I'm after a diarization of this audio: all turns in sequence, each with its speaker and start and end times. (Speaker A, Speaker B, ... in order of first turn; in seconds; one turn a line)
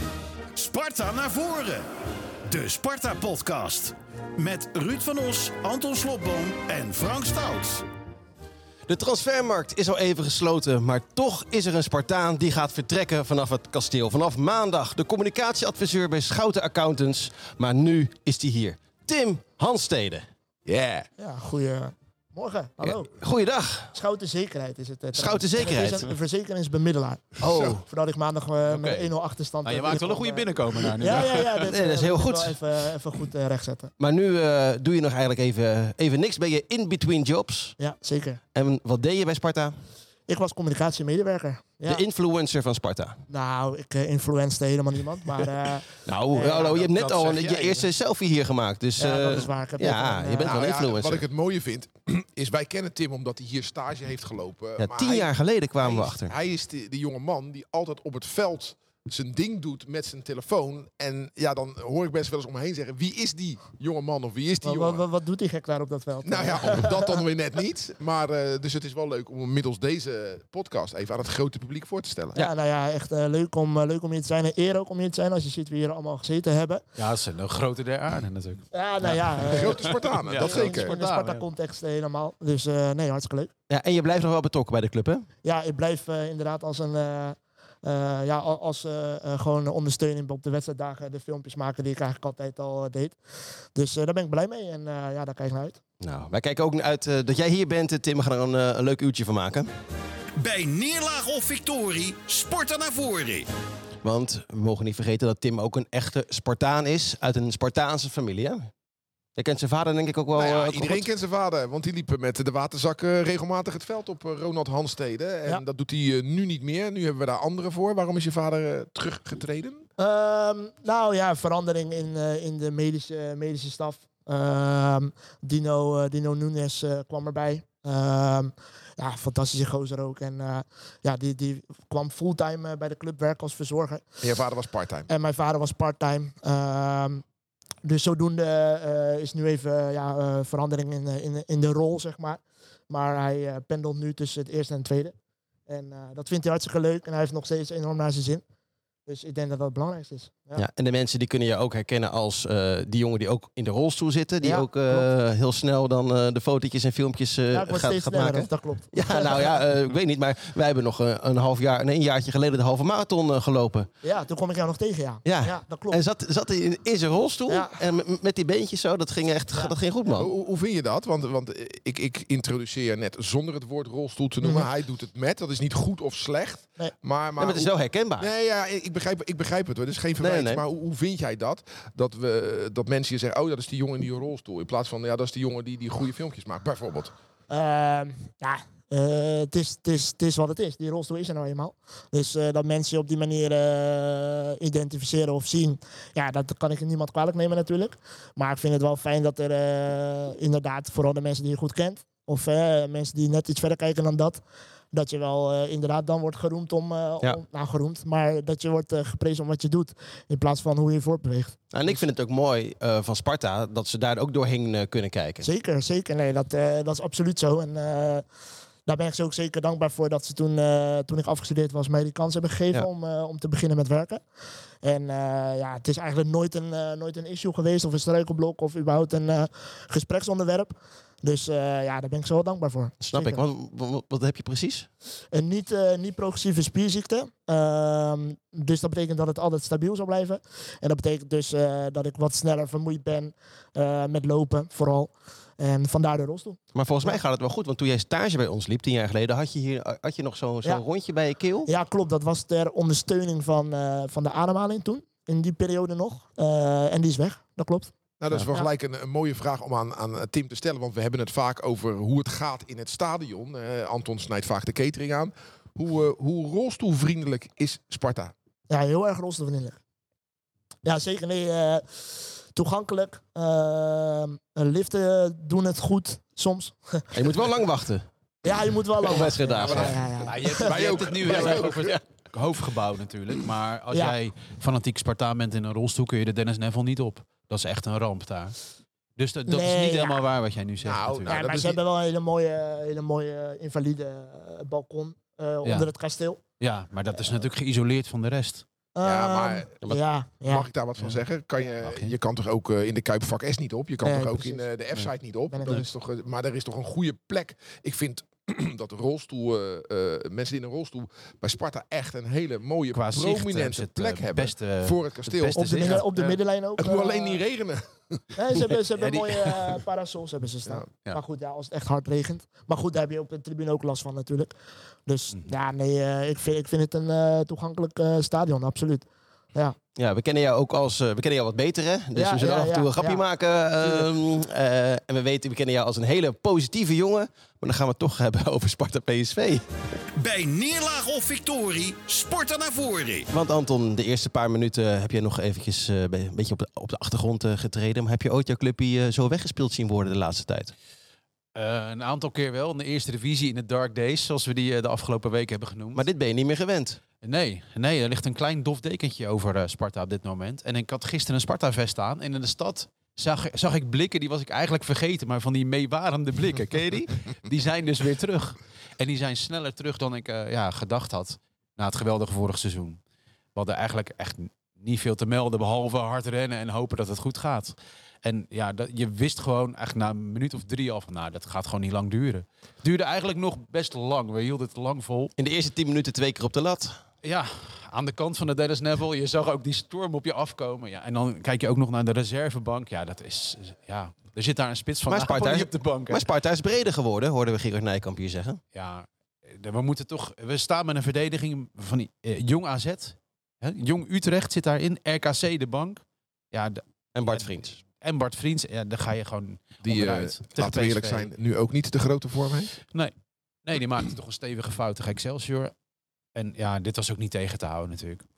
Speaker A: 0.5-1.9
Speaker A: 2.5-7.8
Speaker B: 8.9-20.2
Speaker C: 20.6-21.1
Speaker D: 21.2-23.1
Speaker B: 22.8-23.9
Speaker D: 23.9-33.9
Speaker B: 25.1-26.1
Speaker C: 27.4-27.8
Speaker B: 27.4-27.8
Speaker E: 28.7-29.1
Speaker E: 29.6-31.7
Speaker B: 31.6-32.6
Speaker B: 34.0-37.8
Speaker D: 37.8-38.4
Speaker B: 38.5-39.7
Speaker D: 40.3-42.0
Speaker B: 41.9-43.2
Speaker D: 43.3-46.8
Speaker B: 46.0-51.2
Speaker C: 46.9-47.8
Speaker E: 46.9-47.8
Speaker D: 49.0-50.6
Speaker C: 50.4-65.0
Speaker B: 54.8-56.3
Speaker D: 64.6-67.2
Speaker C: 66.2-72.4
Speaker D: 72.4-76.8
Speaker E: 77.0-81.5
Speaker D: 78.7-83.5
Speaker C: 79.4-80.9
Speaker B: 83.7-85.3
Speaker D: 85.4-93.2
Speaker D: 93.8-95.8
Speaker B: 96.0-99.7
Speaker A: 100.4-103.5
Speaker B: 104.0-108.7
Speaker B: 109.4-111.0
Speaker C: 110.3-119.8
Speaker D: 120.0-134.1
Speaker C: 134.2-135.1
Speaker D: 135.1-137.2
Speaker D: 137.8-145.1
Speaker D: 145.7-148.4
Speaker D: 149.1-150.6
Speaker B: 150.6-163.9
Speaker D: 154.4-155.1
Speaker D: 157.5-159.6
Speaker D: 164.0-166.0
Speaker B: 165.2-170.3
Speaker D: 167.5-167.8
Speaker C: 170.1-187.1
Speaker D: 174.4-174.7
Speaker B: 177.4-178.3
Speaker B: 180.2-180.6
Speaker D: 187.5-204.4
Speaker D: 204.9-212.0
Speaker B: 211.7-215.4
Speaker D: 215.4-218.2
Speaker D: 218.8-224.2
Speaker D: 224.8-233.4
Speaker B: 233.0-234.9
Speaker D: 235.3-247.2
Speaker B: 246.7-251.7
Speaker D: 251.6-257.9
Speaker C: 258.2-268.3
Speaker D: 268.7-269.8
Speaker D: 270.8-277.2
Speaker B: 277.1-278.1
Speaker D: 278.4-280.7
Speaker B: 279.0-280.0
Speaker C: 279.6-281.9
Speaker E: 280.2-288.6
Speaker B: 281.2-282.0
Speaker D: 283.9-284.2
Speaker E: 289.2-291.3
Speaker D: 289.5-290.2
Speaker C: 290.8-291.8
Speaker D: 291.3-296.4
Speaker E: 295.6-295.9
Speaker E: 296.6-298.6
Speaker D: 297.1-297.4
Speaker D: 298.9-300.7
Speaker C: 299.0-299.8
Speaker C: 300.5-318.4
Speaker D: 304.0-304.6
Speaker D: 305.5-305.9
Speaker E: 312.9-316.2
Speaker D: 315.6-317.4
Speaker D: 318.3-324.5
Speaker E: 319.0-319.8
Speaker D: 325.1-329.8
Speaker B: 329.9-339.7
Speaker D: 332.1-333.2
Speaker D: 333.8-334.1
Speaker A: 340.1-343.3
Speaker B: 343.3-350.7
Speaker E: 351.6-356.1
Speaker B: 355.9-357.0
Speaker E: 357.2-373.0
Speaker E: 373.6-385.3
Speaker B: 385.4-387.0
Speaker E: 387.2-396.2
Speaker B: 395.1-398.6
Speaker E: 398.8-411.3
Speaker B: 407.1-407.8
Speaker C: 409.8-412.8
Speaker E: 413.6-415.7
Speaker E: 416.4-418.2